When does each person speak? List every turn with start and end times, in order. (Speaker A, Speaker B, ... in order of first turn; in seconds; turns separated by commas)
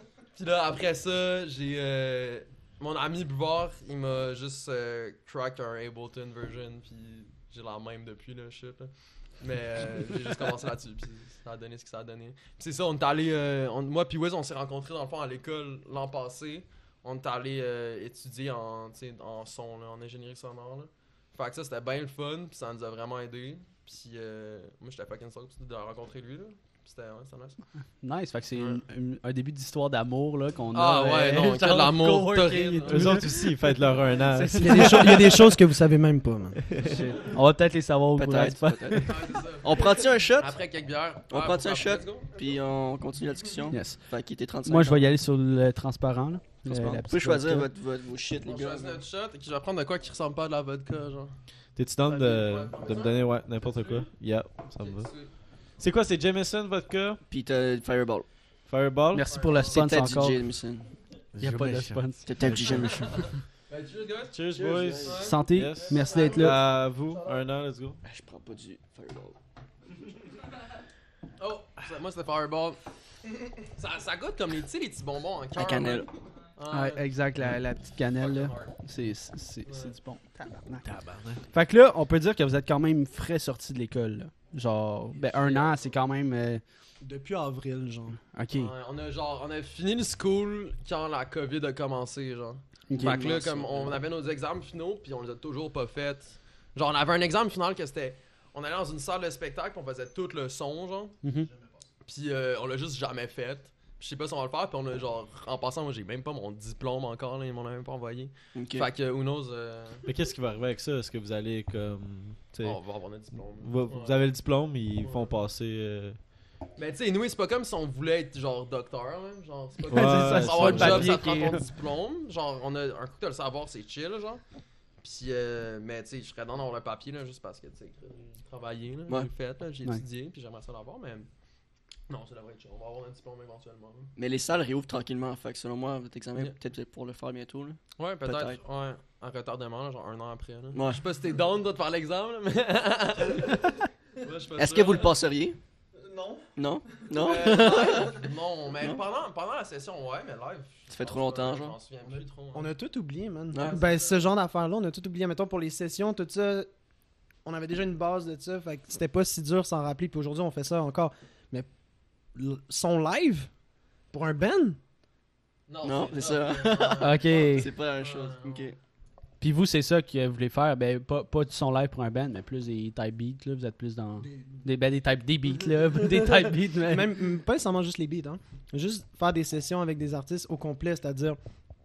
Speaker A: 0.3-27.6, Speaker B: 28.0-33.3, Speaker A: 28.5-28.8, Speaker A: 30.7-33.3, Speaker C: 32.9-35.3, Speaker B: 34.3-35.3, Speaker D: 34.5-36.6, Speaker C: 36.7-37.0, Speaker B: 36.8-39.1, Speaker E: 38.1-40.6, Speaker A: 39.0-42.3, Speaker E: 41.3-45.1, Speaker B: 43.7-44.0, Speaker B: 44.6-47.7, Speaker E: 46.6-49.0, Speaker A: 48.4-51.3, Speaker C: 51.8-55.1, Speaker A: 52.0-54.1, Speaker A: 54.8-55.3, Speaker C: 55.8-57.2, Speaker E: 57.3-58.2, Speaker C: 58.7-59.4, Speaker B: 59.1-60.4, Speaker A: 59.3-59.8, Speaker E: 59.6-60.9, Speaker C: 61.3-63.1, Speaker B: 61.4-63.3, Speaker E: 62.2-63.2, Speaker A: 63.1-65.4, Speaker C: 64.3-68.0, Speaker E: 64.5-65.2, Speaker B: 65.2-66.5, Speaker E: 68.0-69.3, Speaker A: 71.4-72.8, Speaker A: 73.7-77.2, Speaker E: 75.5-76.1, Speaker B: 76.7-80.9, Speaker A: 78.2-78.7, Speaker A: 79.7-79.9, Speaker C: 80.8-81.4, Speaker B: 81.5-86.6, Speaker A: 85.2-85.9, Speaker D: 87.0-88.2, Speaker B: 88.3-88.7, Speaker A: 88.5-101.2, Speaker B: 92.9-93.2, Speaker E: 92.9-94.0, Speaker B: 101.2-101.5, Speaker A: 102.0-110.0, Speaker E: 108.5-108.9, Speaker C: 110.0-112.8, Speaker A: 112.6-114.2, Speaker C: 113.3-116.2, Speaker A: 115.0-115.3, Speaker A: 116.8-124.4, Speaker C: 119.9-121.2, Speaker B: 119.9-121.6, Speaker A: 125.0-131.3, Speaker A: 132.1-134.1, Speaker E: 134.2-138.6, Speaker A: 138.0-145.2, Speaker E: 140.7-141.0, Speaker E: 144.5-145.6, Speaker D: 145.9-146.5, Speaker E: 146.6-148.2, Speaker A: 147.2-152.7, Speaker E: 150.9-151.8, Speaker D: 152.0-156.7, Speaker E: 153.5-153.8, Speaker A: 153.6-154.2, Speaker D: 157.4-161.7, Speaker D: 162.3-163.5, Speaker D: 164.1-164.8, Speaker A: 165.7-168.7, Speaker E: 165.8-168.8, Speaker B: 167.0-167.7, Speaker B: 169.4-177.2, Speaker D: 176.9-181.4